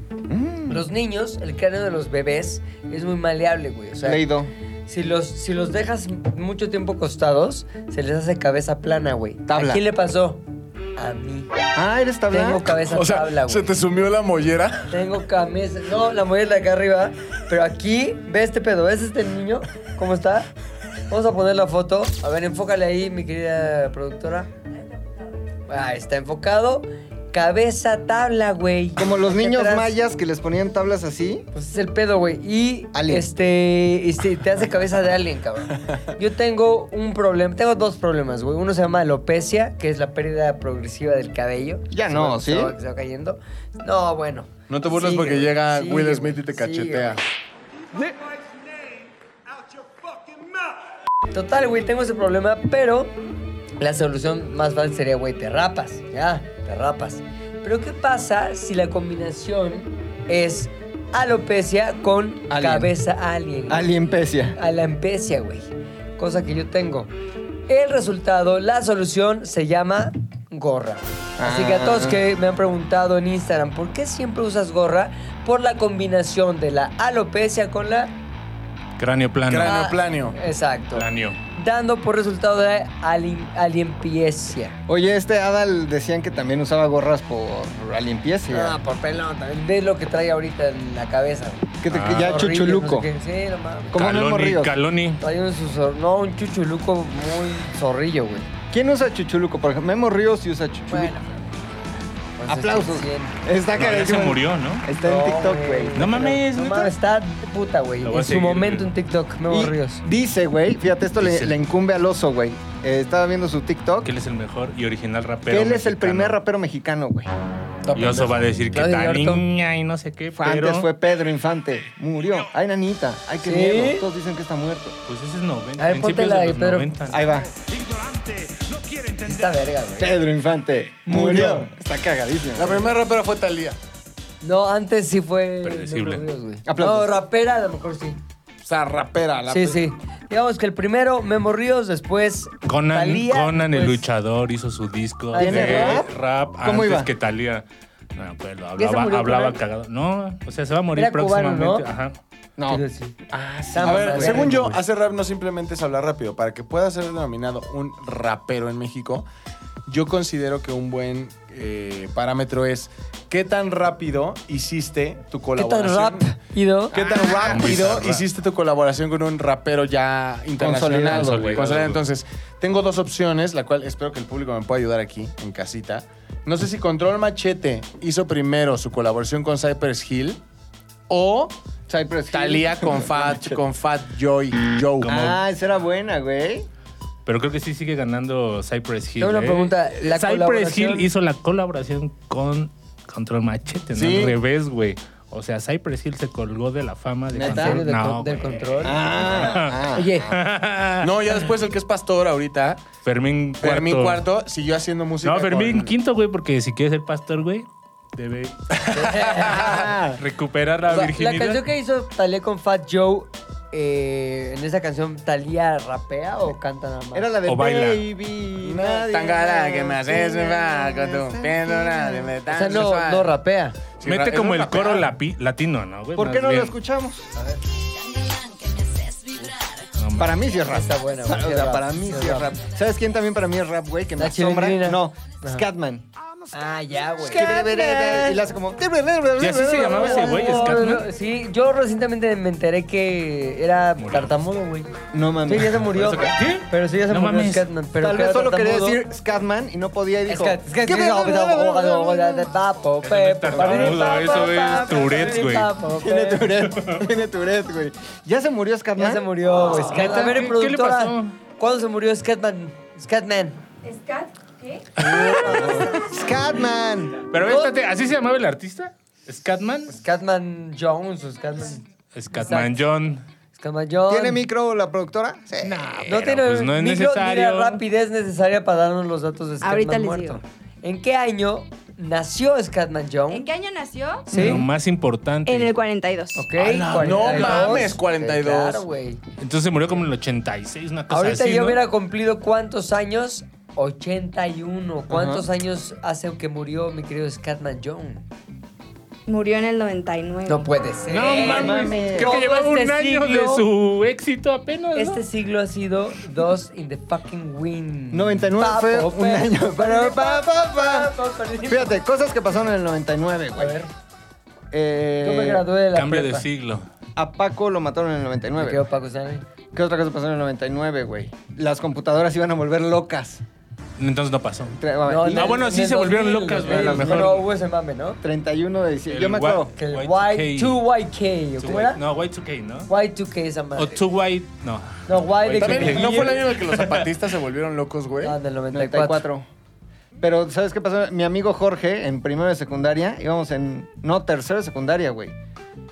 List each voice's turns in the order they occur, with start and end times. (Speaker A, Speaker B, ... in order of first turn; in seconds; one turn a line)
Speaker A: 0.3-0.8
Speaker B: 0.7-4.3
Speaker A: 4.0-4.5
Speaker B: 4.9-10.4
Speaker A: 9.5-9.8
Speaker B: 11.0-11.5
Speaker A: 11.8-12.7
Speaker B: 12.3-13.7
Speaker C: 12.8-14.9
Speaker B: 14.9-20.5
Speaker B: 21.1-24.5
Speaker B: 25.7-29.9
Speaker A: 29.0-31.5
Speaker B: 31.5-47.2
Speaker A: 32.9-33.3
Speaker A: 41.9-42.8
Speaker C: 44.7-47.2
Speaker B: 51.3-53.1
Speaker B: 53.8-67.1
Speaker A: 62.5-62.9
Speaker A: 63.7-64.6
Speaker B: 67.7-78.1
Speaker A: 71.4-72.2
Speaker D: 79.0-79.9
Speaker C: 79.5-80.4
Speaker B: 79.6-84.8
Speaker D: 81.0-81.4
Speaker A: 84.9-88.8
Speaker B: 88.5-94.0
Speaker A: 91.8-93.1
Speaker D: 91.9-92.3
Speaker A: 93.9-94.7
Speaker D: 93.9-95.2
Speaker B: 95.2-98.5
Speaker A: 98.7-101.1
Speaker B: 100.9-101.5
Speaker B: 102.4-103.4
Speaker A: 102.5-106.4
Speaker D: 103.7-104.8
Speaker B: 105.0-110.0
Speaker D: 106.0-106.9
Speaker D: 108.0-108.9
Speaker A: 109.5-114.1
Speaker D: 111.2-111.6
Speaker D: 114.0-116.4
Speaker A: 115.5-117.3
Speaker B: 117.9-119.4
Speaker D: 117.9-120.9
Speaker A: 120.4-125.0
Speaker B: 123.4-124.1
Speaker D: 125.1-127.3
Speaker B: 125.8-126.9
Speaker A: 127.1-127.5
Speaker B: 129.0-130.2
Speaker A: 130.0-132.9
Speaker B: 131.1-131.7
Speaker C: 132.6-133.8
Speaker B: 134.4-138.2
Speaker D: 135.6-136.2
Speaker A: 136.7-137.2
Speaker C: 138.6-139.8
Speaker B: 139.5-144.0
Speaker D: 142.7-152.2
Speaker B: 145.3-146.0
Speaker A: 145.3-147.1
Speaker B: 148.8-149.6
Speaker B: 150.9-151.9
Speaker B: 152.7-154.8
Speaker C: 153.3-159.3
Speaker A: 153.7-154.6
Speaker C: 159.9-166.3
Speaker B: 165.6-167.0
Speaker A: 166.9-168.1
Speaker C: 166.9-180.4
Speaker D: 167.4-168.2
Speaker A: 170.6-171.8
Speaker D: 170.9-172.0
Speaker C: 181.1-181.5
Speaker A: 181.9-183.6
Speaker C: 182.3-185.1
Speaker D: 185.0-185.4
Speaker A: 185.1-186.7
Speaker D: 187.3-201.2
Speaker B: 189.2-191.1
Speaker C: 194.0-194.3
Speaker A: 197.3-197.8
Speaker B: 197.4-199.4
Speaker A: 198.8-200.2
Speaker B: 199.9-200.3
Speaker C: 201.0-202.9
Speaker D: 203.0-204.2
Speaker C: 203.6-205.9
Speaker D: 205.2-208.6
Speaker C: 208.7-209.9
Speaker B: 208.9-209.9
Speaker A: 209.5-210.2
Speaker D: 210.2-211.6
Speaker B: 210.9-217.3
Speaker A: 217.1-222.4
Speaker D: 217.5-218.1
Speaker C: 218.6-223.3
Speaker B: 222.5-223.8
Speaker C: 224.0-225.1
Speaker D: 224.0-226.8
Speaker A: 226.2-227.3
Speaker B: 227.3-227.6
Speaker D: 229.9-230.4
Speaker A: 230.2-236.6
Speaker B: 230.6-232.5
Speaker B: 234.2-235.7
Speaker B: 236.5-238.4
Speaker A: 237.2-240.7
Speaker D: 239.4-241.1
Speaker B: 239.6-244.9
Speaker D: 244.0-244.4
Speaker A: 245.1-245.9
Speaker B: 245.4-249.0
Speaker D: 245.8-247.7
Speaker A: 248.0-252.6
Speaker B: 250.3-256.6
Speaker D: 253.0-255.7
Speaker A: 253.6-253.9
Speaker E: 253.8-255.3
Speaker A: 255.9-259.2
Speaker D: 256.7-257.0
Speaker B: 259.0-263.6
Speaker D: 259.7-261.4
Speaker E: 263.8-264.9
Speaker A: 265.0-267.2
Speaker B: 265.0-266.4
Speaker D: 267.3-269.9
Speaker B: 267.4-268.1
Speaker B: 269.9-272.9
Speaker D: 272.1-273.2
Speaker B: 273.6-274.4
Speaker A: 274.1-276.1
Speaker D: 275.6-277.8
Speaker B: 276.1-283.5
Speaker E: 279.6-280.4
Speaker E: 283.3-284.4
Speaker B: 284.3-284.7
Speaker D: 284.3-285.7
Speaker E: 285.4-286.5
Speaker B: 286.4-289.2
Speaker C: 286.6-288.9
Speaker D: 286.7-287.8
Speaker D: 289.4-291.8
Speaker B: 291.1-298.2
Speaker A: 295.1-295.4
Speaker E: 299.3-300.7
Speaker B: 300.5-303.6
Speaker D: 301.1-305.2
Speaker A: 301.3-302.4
Speaker B: 304.9-312.0
Speaker A: 308.1-313.8
Speaker B: 313.6-313.9
Speaker A: 314.7-315.6
Speaker B: 315.2-316.5
Speaker D: 315.9-316.9
Speaker A: 317.2-318.9
Speaker B: 318.6-319.4
Speaker A: 319.7-323.4
Speaker D: 324.0-324.8
Speaker A: 324.7-325.7
Speaker B: 325.1-328.2
Speaker D: 325.3-327.4
Speaker A: 326.6-327.4
Speaker A: 328.2-329.7
Speaker D: 329.1-330.8
Speaker B: 329.8-332.0
Speaker D: 331.6-332.9
Speaker B: 332.9-334.0
Speaker D: 333.8-337.1
Speaker B: 335.1-336.5
Speaker C: 335.6-338.4
Speaker B: 338.2-339.2
Speaker A: 338.7-339.4
Speaker A: 340.2-345.3